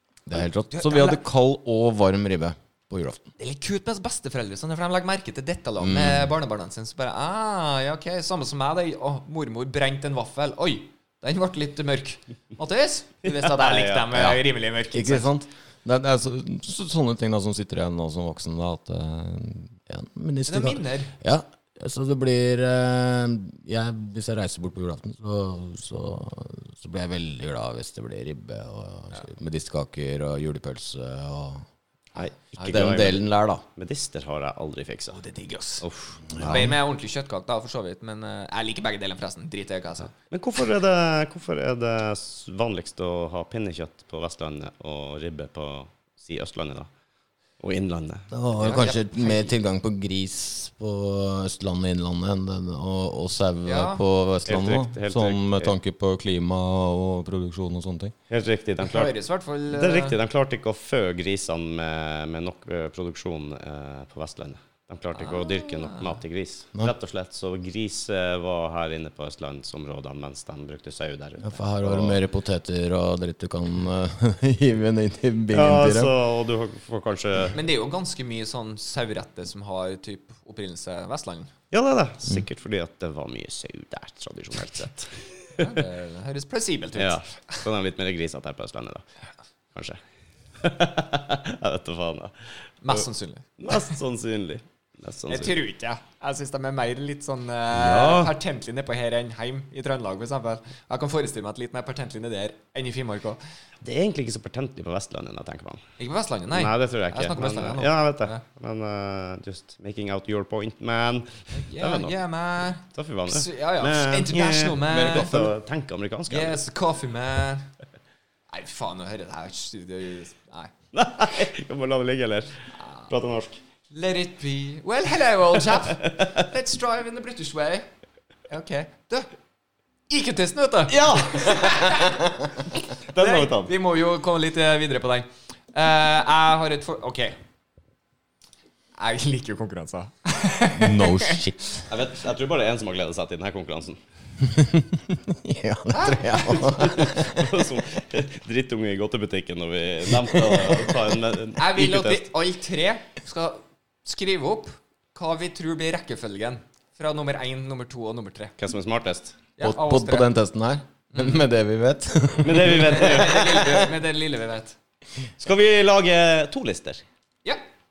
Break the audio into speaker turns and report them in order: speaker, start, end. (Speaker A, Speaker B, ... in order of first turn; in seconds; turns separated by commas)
Speaker A: 0.3-3.2, Speaker B: 0.7-1.2, Speaker B: 3.4-15.3, Speaker A: 5.8-6.3, Speaker C: 13.3-14.3, Speaker A: 14.9-31.6, Speaker B: 20.5-21.1, Speaker C: 32.1-33.2, Speaker A: 32.6-33.6, Speaker C: 33.8-35.2, Speaker B: 35.1-35.8, Speaker C: 35.8-36.8, Speaker B: 36.4-40.1, Speaker C: 40.2-46.9, Speaker C: 47.6-48.3, Speaker A: 48.3-58.1, Speaker B: 48.6-49.5, Speaker B: 53.6-54.0, Speaker C: 54.5-55.7, Speaker C: 58.3-59.1, Speaker B: 58.8-60.2, Speaker C: 59.7-72.2, Speaker B: 65.2-66.1, Speaker A: 71.4-76.1, Speaker C: 75.5-77.6, Speaker B: 77.5-81.5, Speaker C: 81.7-85.8, Speaker B: 85.6-87.6, Speaker C: 87.0-89.0, Speaker C: 89.7-90.0, Speaker C: 90.6-92.3, Speaker B: 92.8-93.8, Speaker C: 93.6-95.6, Speaker B: 95.3-103.4, Speaker C: 97.7-98.3, Speaker C: 103.8-105.8, Speaker B: 106.0-108.4, Speaker C: 106.5-112.1, Speaker B: 111.5-115.5, Speaker C: 112.9-116.6, Speaker B: 116.3-117.7, Speaker B: 118.5-120.7, Speaker C: 120.9-123.6, Speaker B: 123.9-127.9, Speaker C: 126.0-126.3, Speaker B: 128.5-129.3, Speaker B: 130.1-132.4, Speaker C: 130.9-132.1, Speaker C: 133.0-133.7, Speaker B: 133.2-137.4, Speaker B: 139.0-141.4, Speaker A: 140.8-141.7, Speaker C: 141.9-144.0, Speaker A: 144.4-147.6, Speaker B: 145.9-147.0, Speaker C: 146.6-152.2, Speaker A: 150.2-150.9, Speaker B: 151.6-158.5, Speaker C: 158.6-159.4, Speaker B: 159.6-160.3, Speaker A: 159.6-163.8, Speaker B: 161.1-161.4, Speaker C: 162.4-163.6, Speaker B: 162.9-164.8, Speaker C: 165.4-167.0